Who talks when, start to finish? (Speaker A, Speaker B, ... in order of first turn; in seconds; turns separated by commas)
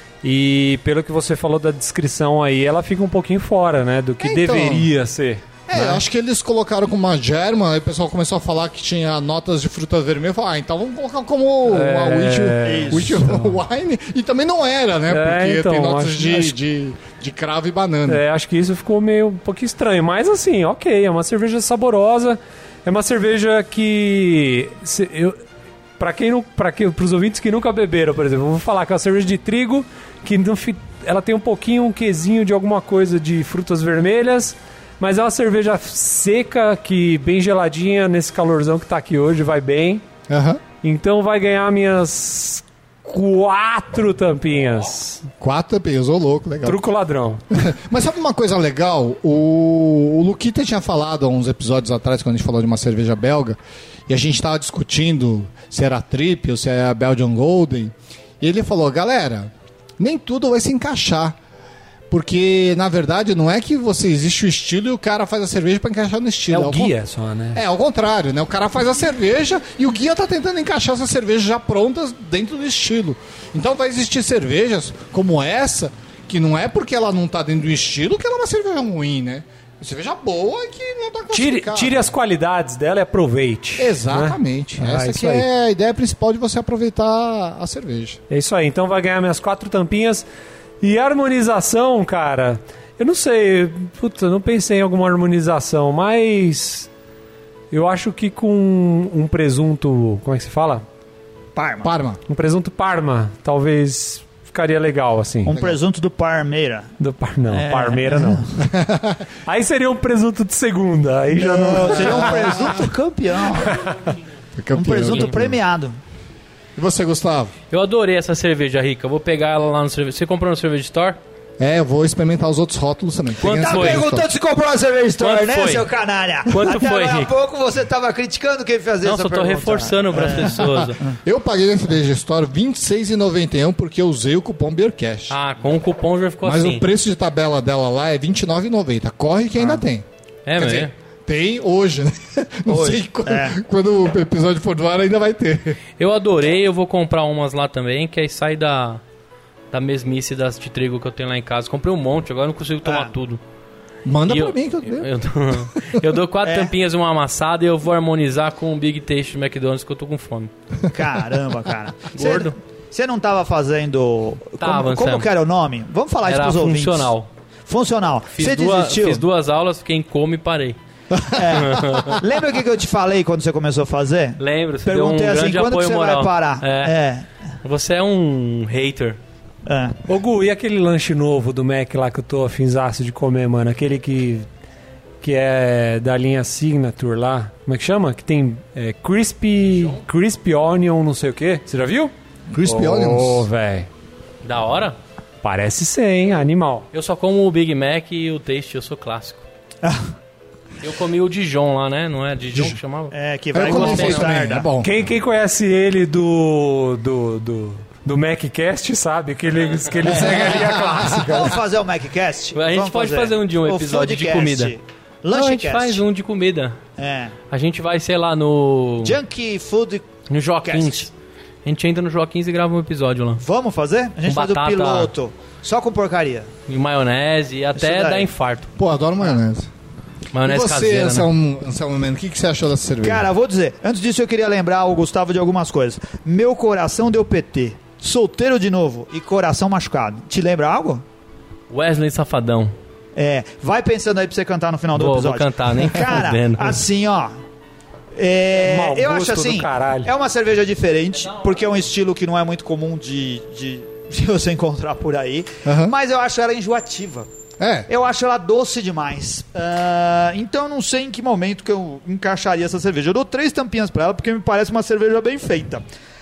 Speaker A: 0.2-6.0, Speaker B: 4.2-4.9, Speaker B: 5.7-18.2, Speaker A: 11.7-13.6, Speaker C: 12.6-13.2, Speaker A: 15.1-16.6, Speaker A: 18.1-25.4, Speaker A: 26.0-40.0, Speaker B: 40.3-40.6, Speaker A: 40.8-45.3, Speaker B: 45.4-46.8, Speaker A: 46.6-47.4, Speaker B: 47.5-61.4, Speaker B: 62.1-66.9, Speaker A: 66.5-67.6, Speaker B: 67.5-82.1, Speaker A: 81.3-85.5, Speaker B: 83.8-88.2, Speaker A: 88.3-90.2, Speaker A: 90.8-96.9, Speaker A: 97.7-100.8, Speaker C: 101.6-101.9, Speaker B: 101.8-102.2, Speaker A: 102.3-105.6, Speaker C: 105.5-106.9, Speaker B: 105.5-105.8, Speaker A: 107.0-108.6, Speaker C: 107.5-108.5, Speaker B: 108.6-109.2, Speaker A: 109.5-112.8, Speaker C: 111.4-113.8, Speaker B: 111.9-112.9, Speaker B: 114.6-115.6, Speaker C: 114.7-116.0, Speaker B: 116.8-117.5, Speaker D: 117.7-121.2, Speaker B: 121.6-124.3, Speaker D: 123.4-124.1, Speaker C: 123.5-131.2, Speaker D: 125.2-125.9, Speaker D: 126.5-127.3, Speaker D: 129.0-131.0, Speaker B: 130.5-135.3, Speaker D: 135.3-136.9, Speaker B: 136.4-145.8, Speaker D: 140.4-140.9, Speaker C: 142.7-143.6, Speaker D: 146.0-149.0, Speaker D: 149.7-153.4, Speaker C: 152.8-153.1, Speaker B: 154.1-156.0, Speaker D: 154.3-160.5, Speaker C: 156.4-156.7, Speaker C: 160.9-167.1, Speaker D: 162.1-162.6, Speaker D: 164.6-165.3, Speaker D: 166.2-167.3, Speaker C: 167.7-169.2, Speaker D: 168.3-170.8, Speaker C: 171.3-177.3, Speaker D: 171.5-172.2, Speaker D: 174.4-176.9, Speaker D: 177.6-179.2, Speaker C: 179.7-180.0, Speaker A: 180.1-184.5, Speaker A: 185.2-192.1, Speaker B: 192.5-193.5, Speaker A: 192.6-193.9, Speaker D: 194.4-195.0, Speaker A: 195.4-196.9, Speaker D: 196.9-199.5, Speaker D: 200.8-204.5, Speaker C: 203.1-204.7, Speaker B: 203.5-205.0, Speaker A: 204.8-211.6, Speaker B: 210.0-211.5, Speaker C: 210.1-216.0, Speaker D: 212.5-214.8, Speaker D: 215.3-216.8, Speaker C: 217.0-217.3, Speaker D: 217.5-219.2, Speaker C: 219.0-220.1, Speaker D: 220.3-221.1, Speaker C: 220.6-221.1, Speaker D: 221.6-223.4, Speaker C: 223.4-226.5, Speaker D: 224.2-225.1, Speaker D: 226.7-228.7, Speaker C: 227.8-228.3, Speaker B: 228.8-229.7, Speaker D: 230.3-231.3, Speaker B: 230.4-233.3, Speaker C: 233.0-241.0, Speaker D: 241.7-242.8, Speaker C: 243.2-247.4, Speaker D: 244.9-246.8, Speaker C: 248.1-257.3, Speaker A: 248.6-250.1, Speaker B: 255.6-255.9, Speaker B: 257.6-257.9, Speaker C: 257.9-265.9